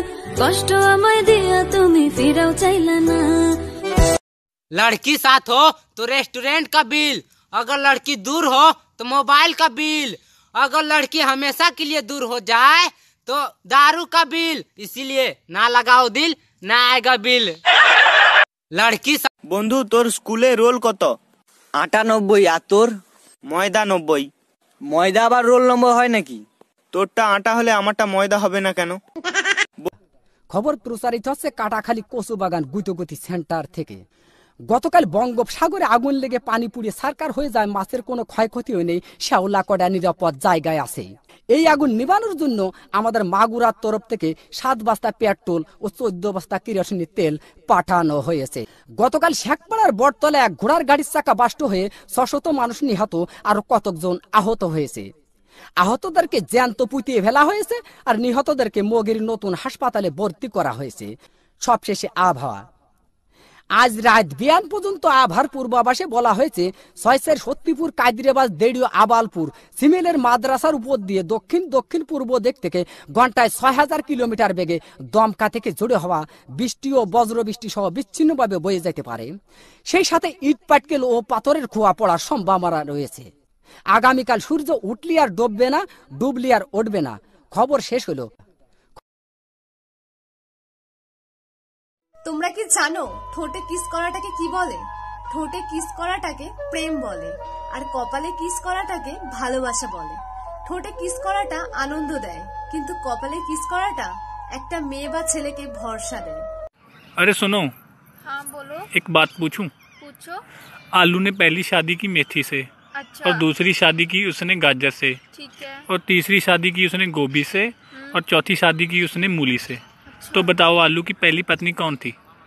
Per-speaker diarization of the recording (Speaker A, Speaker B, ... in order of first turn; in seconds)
Speaker A: 0.4-3.2
Speaker B: 4.7-17.6, 18.7-19.3
Speaker C: 19.5-21.1, 23.5-24.3, 26.9-29.0
Speaker D: 21.8-22.9, 24.9-26.4
Speaker E: 30.5-34.0, 34.7-55.1, 55.8-61.1, 61.6-62.6, 63.8-79.3, 79.9-83.3, 83.9-88.3
Speaker F: 92.3-94.8, 95.3-106.4
Speaker G: 107.2-107.7, 108.9-109.7, 110.9-112.7, 113.2-115.2, 115.9-122.2
Speaker H: 108.2-108.9, 110.0-110.4, 112.9-113.5, 115.3-115.8, 117.9-118.2, 120.1-120.6